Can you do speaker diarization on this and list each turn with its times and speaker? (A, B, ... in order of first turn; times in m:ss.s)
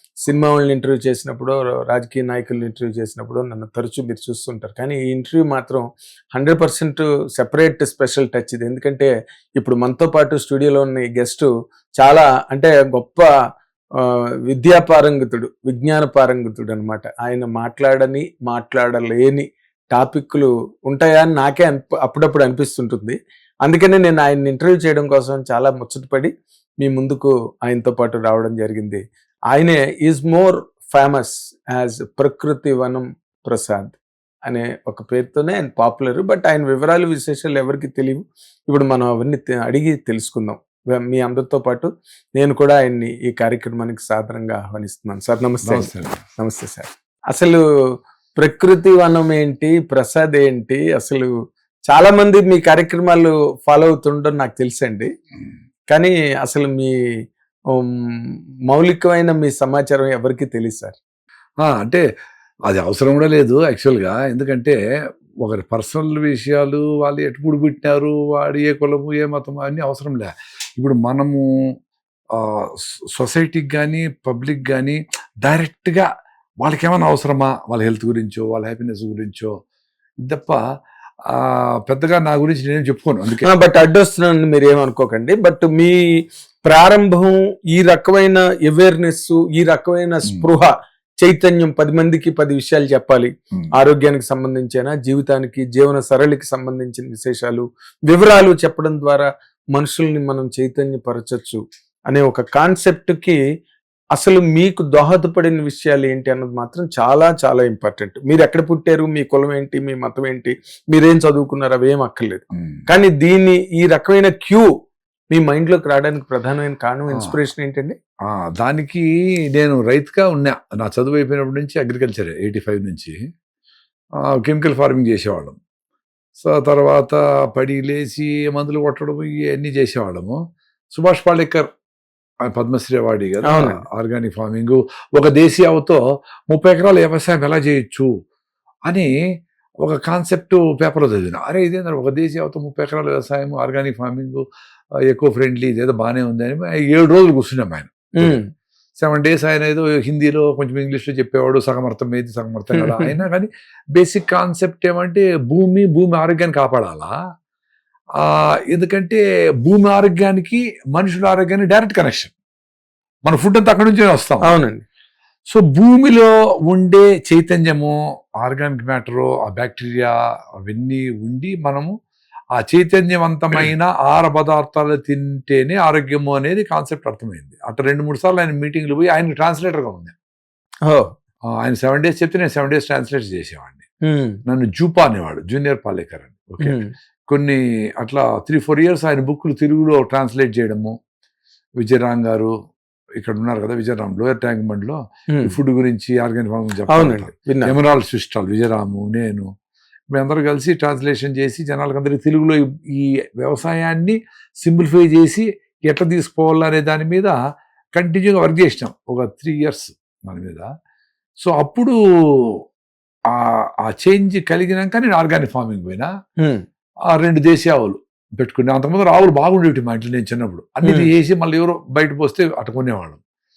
0:00.3-0:05.8 A
0:06.4-0:13.2 A
0:14.5-0:26.3 A
0:26.8-0:29.0 A
0:29.5-0:47.6 A
0:45.6-0:46.2 B
0:48.4-0:51.3 A
0:51.9-0:55.1 A
0:55.9-0:56.9 A
0:58.7-1:01.0 A
1:01.6-1:02.0 B
1:02.7-1:04.8 B
1:05.4-1:11.4 B
1:12.4-1:16.0 B
1:16.6-1:19.5 B
1:20.3-1:20.6 B
1:21.3-1:23.5 B
1:23.4-1:26.0 A
1:26.6-1:43.4 A
1:44.2-1:54.7 A
1:52.6-1:52.8 B
1:55.3-1:58.0 A
1:58.3-2:03.2 B
2:04.2-2:05.6 B
2:06.4-2:10.4 B
2:10.9-2:11.6 B
2:12.5-2:16.0 B
2:13.5-2:13.8 A
2:16.5-2:18.1 B
2:19.8-2:24.4 B
2:25.0-2:28.4 B
2:28.2-2:28.5 A
2:29.0-2:37.1 B
2:32.8-2:33.2 A
2:38.2-2:42.3 B
2:43.3-2:44.5 B
2:44.5-2:44.8 A
2:45.5-2:50.1 B
2:50.6-2:51.9 B
2:52.6-3:00.1 B
3:01.6-3:03.8 B
3:04.1-3:04.4 A
3:04.5-3:06.8 B
3:06.6-3:06.9 A
3:07.3-3:10.9 B
3:11.8-3:12.5 B
3:13.2-3:19.5 B
3:16.9-3:17.7 A
3:20.1-3:27.4 B
3:28.0-3:30.7 B
3:31.4-3:31.9 B
3:33.3-3:36.1 B
3:37.1-3:43.2 B
3:40.8-3:41.1 A